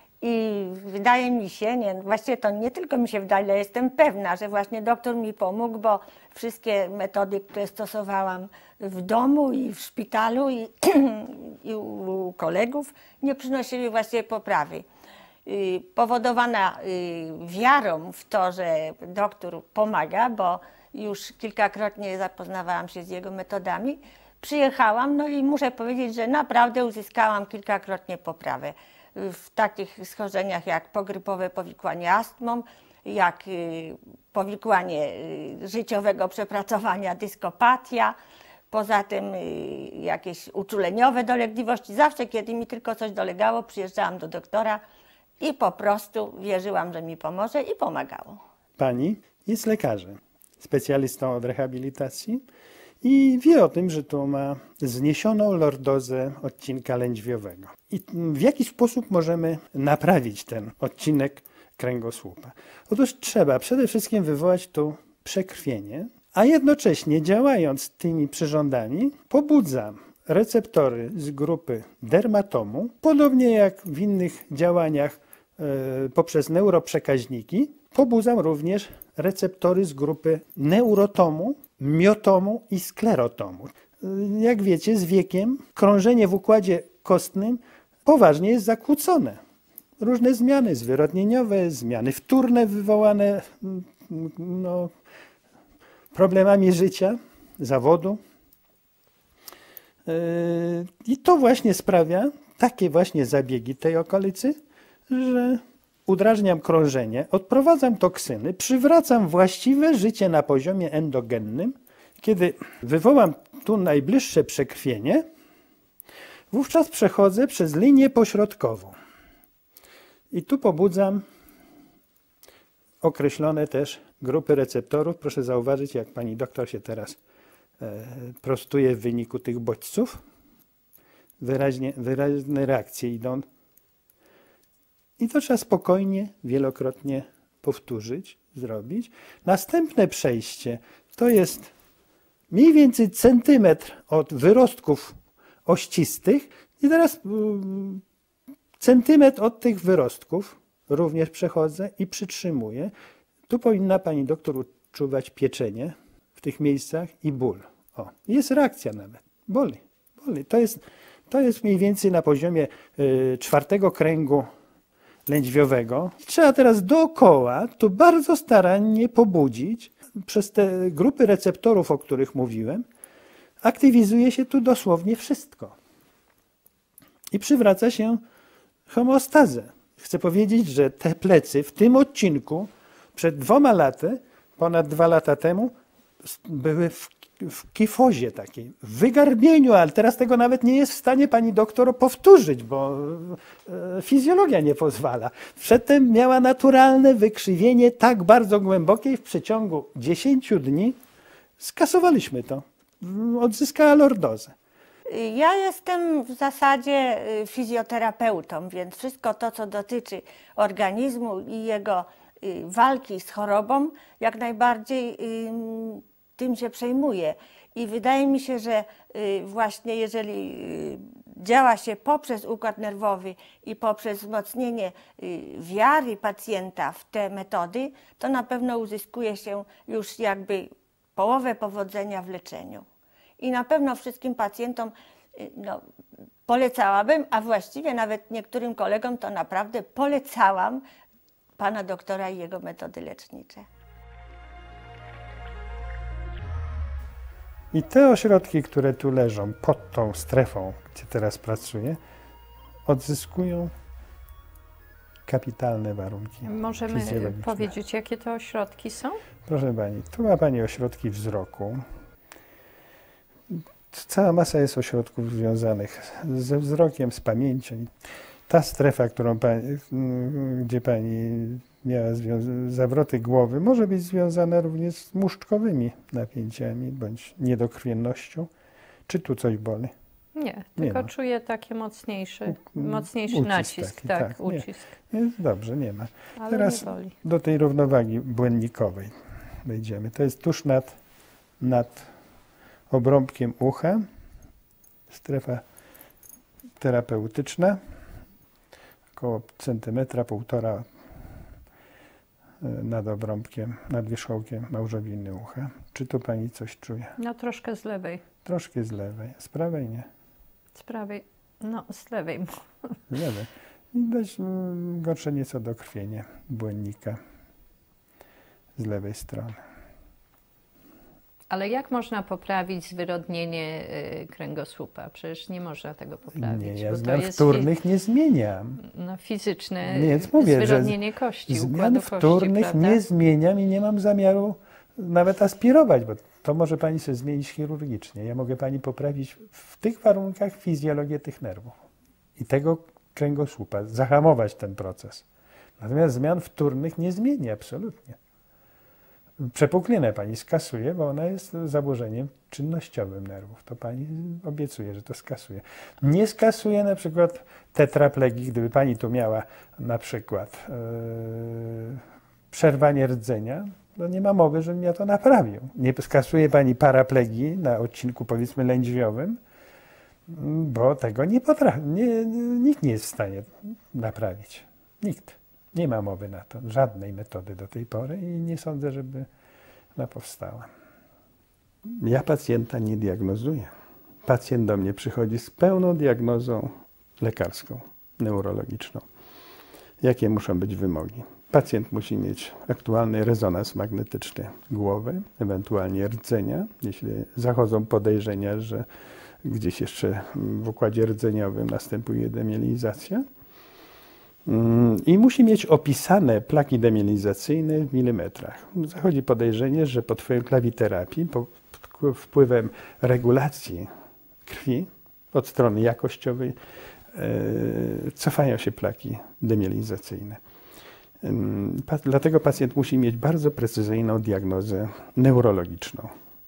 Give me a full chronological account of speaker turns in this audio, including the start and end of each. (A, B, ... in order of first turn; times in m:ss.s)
0:00.2-0:14.9 A
0:15.4-0:38.2 A
0:38.7-0:44.8 A
0:45.4-0:48.4 A
0:48.8-0:52.4 B
0:53.0-1:29.4 B
1:30.0-1:34.9 B
1:36.1-1:38.2 B
1:40.0-1:44.5 B
1:45.1-1:55.2 B
1:56.5-1:58.9 B
2:00.3-2:01.2 B
2:03.0-2:07.2 B
2:07.8-2:10.2 B
2:11.4-2:13.4 B
2:15.2-2:21.7 B
2:22.5-2:25.1 B
2:25.6-2:28.0 B
2:28.8-2:32.9 B
2:33.5-2:44.5 B
2:45.2-2:52.8 B
2:53.6-2:55.7 B
2:57.3-2:58.2 B
2:58.9-3:05.7 B
3:06.2-3:21.0 B
3:21.6-3:24.5 B
3:25.1-3:52.8 A
3:53.4-3:55.8 A
3:56.5-4:00.8 A
4:01.6-4:03.6 A
4:07.7-4:12.0 B
4:12.8-4:13.7 B
4:15.3-4:17.7 B
4:16.4-4:19.2 C
4:19.4-4:21.8 B
4:23.9-4:27.9 B
4:28.5-4:38.5 B
4:39.1-4:39.9 B
4:40.4-4:44.8 C
4:40.8-4:41.1 B
4:42.5-4:49.1 B
4:46.4-4:47.1 C
4:49.6-4:50.9 B
4:51.6-4:52.1 B
4:52.9-4:54.0 B
4:55.1-4:55.6 B
4:56.8-4:57.8 B
4:59.1-5:00.9 B
5:02.6-5:07.1 B
5:07.2-5:08.2 C
5:08.4-5:10.1 B
5:10.8-5:13.0 C
5:13.1-5:17.2 B
5:18.8-5:19.6 B
5:21.5-5:27.7 C
5:26.3-5:28.8 B
5:28.8-5:33.0 C
5:29.8-5:41.8 B
5:42.4-5:45.2 B
5:45.8-5:48.2 B
5:49.4-6:09.4 B
6:10.3-6:19.3 B
6:19.9-6:20.7 B
6:22.0-6:23.7 B
6:24.2-6:29.0 B
6:30.0-6:38.8 B
6:39.4-6:43.2 B
6:44.4-6:53.9 B
6:54.4-6:56.6 B
6:57.1-7:00.4 B
7:01.2-7:06.1 B